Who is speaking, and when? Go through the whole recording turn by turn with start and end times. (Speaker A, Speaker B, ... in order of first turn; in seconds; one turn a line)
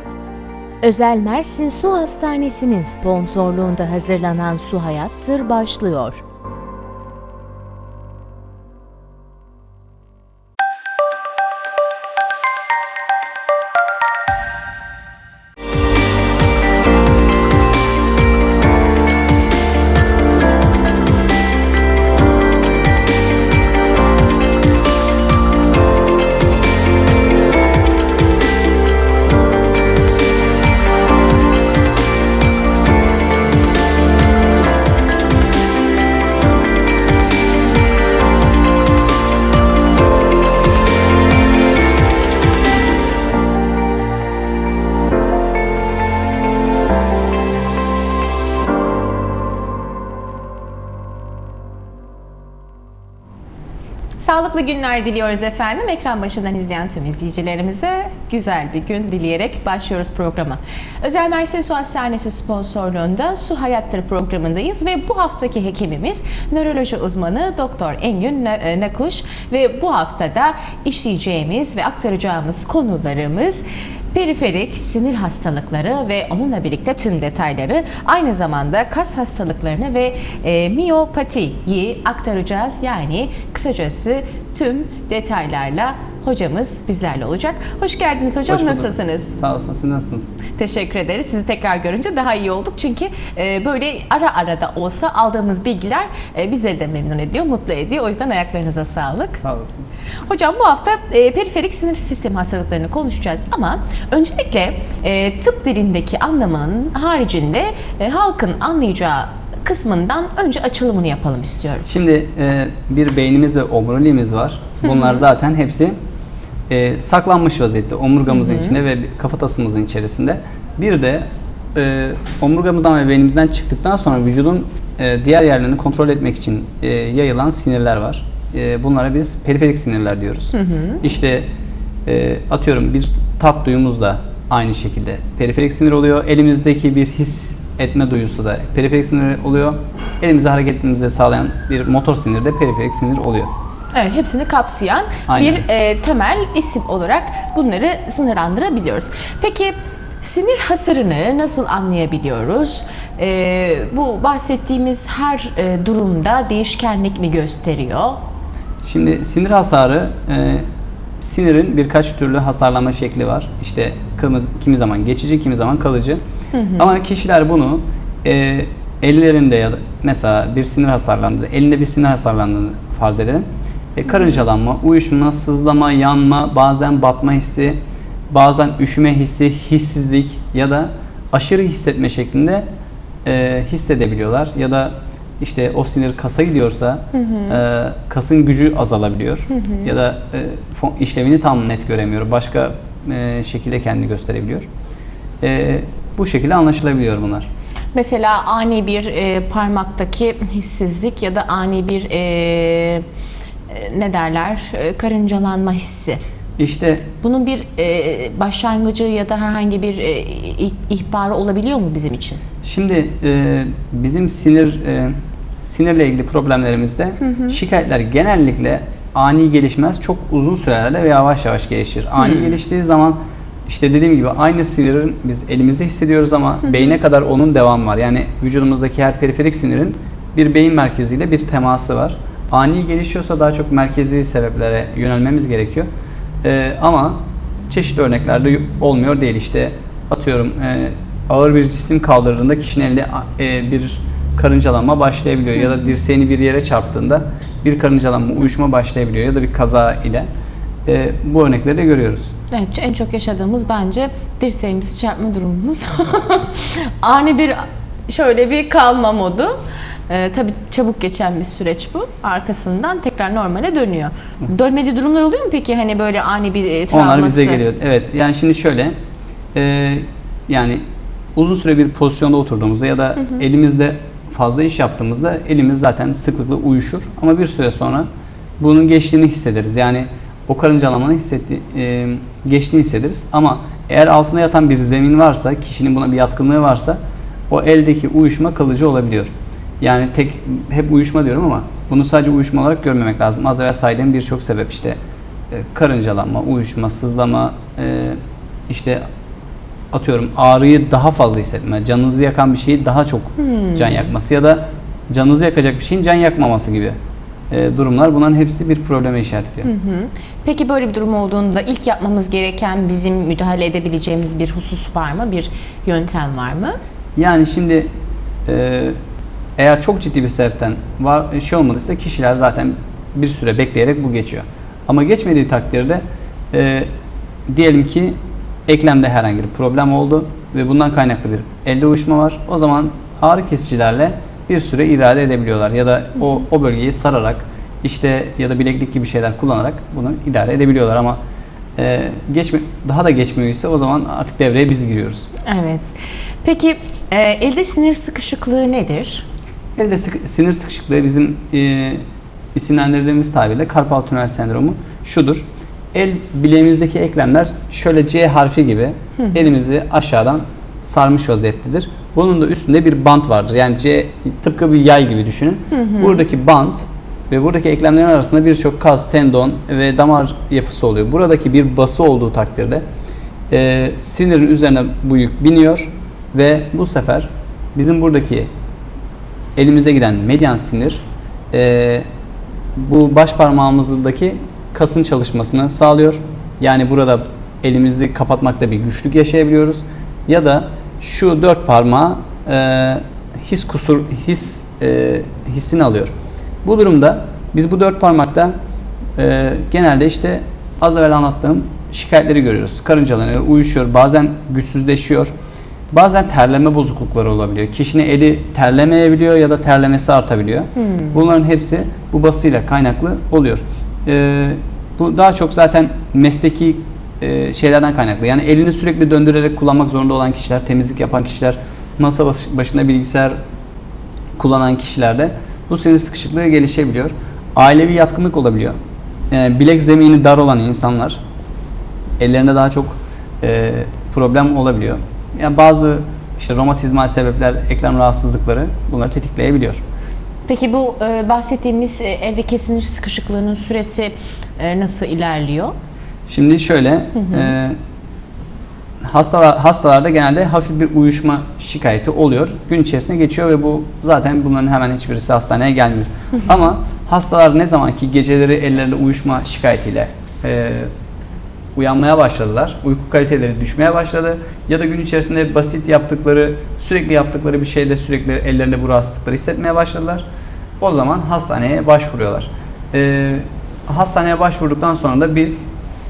Speaker A: 0.8-6.2
Speaker B: 54.2-89.4
Speaker C: 88.5-90.4
Speaker B: 90.5-99.4
Speaker C: 99.4-99.9
Speaker B: 100.3-111.9
Speaker C: 111.9-116.0
Speaker C: 116.7-131.5
Speaker B: 118.3-118.7
Speaker B: 130.6-131.0
Speaker C: 132.1-143.5
Speaker B: 143.9-158.2
Speaker C: 145.3-145.6
Speaker C: 158.8-160.7
Speaker C: 161.2-166.2
Speaker B: 166.5-166.9
Speaker C: 166.8-177.8
Speaker C: 178.3-182.7
Speaker C: 183.2-194.7
Speaker B: 187.1-187.6
Speaker B: 189.5-189.9
Speaker C: 195.4-197.5
Speaker B: 197.9-203.1
Speaker B: 203.7-206.2
Speaker C: 206.6-207.1
Speaker B: 207.2-212.4
Speaker C: 212.6-215.1
Speaker C: 215.7-235.9
Speaker B: 222.2-222.5
Speaker C: 236.4-250.3
Speaker C: 250.9-252.3
Speaker B: 252.5-267.6
Speaker C: 266.9-268.9
Speaker C: 269.5-270.8
Speaker C: 271.4-278.1
Speaker C: 278.6-295.0
Speaker C: 295.5-299.0
Speaker C: 299.9-307.0
Speaker B: 303.4-304.0
Speaker C: 307.5-309.7
Speaker B: 309.6-316.8
Speaker C: 317.2-317.9
Speaker C: 318.5-319.0
Speaker C: 319.6-326.9
Speaker C: 327.5-341.2
Speaker C: 341.8-345.3
Speaker B: 345.4-349.3
Speaker C: 349.8-352.0
Speaker C: 352.5-372.8
Speaker B: 365.7-366.2
Speaker C: 373.5-378.5
Speaker C: 379.6-382.1
Speaker C: 382.8-398.5
Speaker C: 399.2-405.3
Speaker C: 405.9-423.4
Speaker B: 410.8-411.1
Speaker C: 424.4-428.8
Speaker C: 429.3-431.2
Speaker C: 432.2-439.8
Speaker B: 440.5-445.7
Speaker C: 446.3-447.8
Speaker B: 447.2-447.5
Speaker C: 449.0-460.9
Speaker C: 461.8-470.2
Speaker C: 470.8-475.7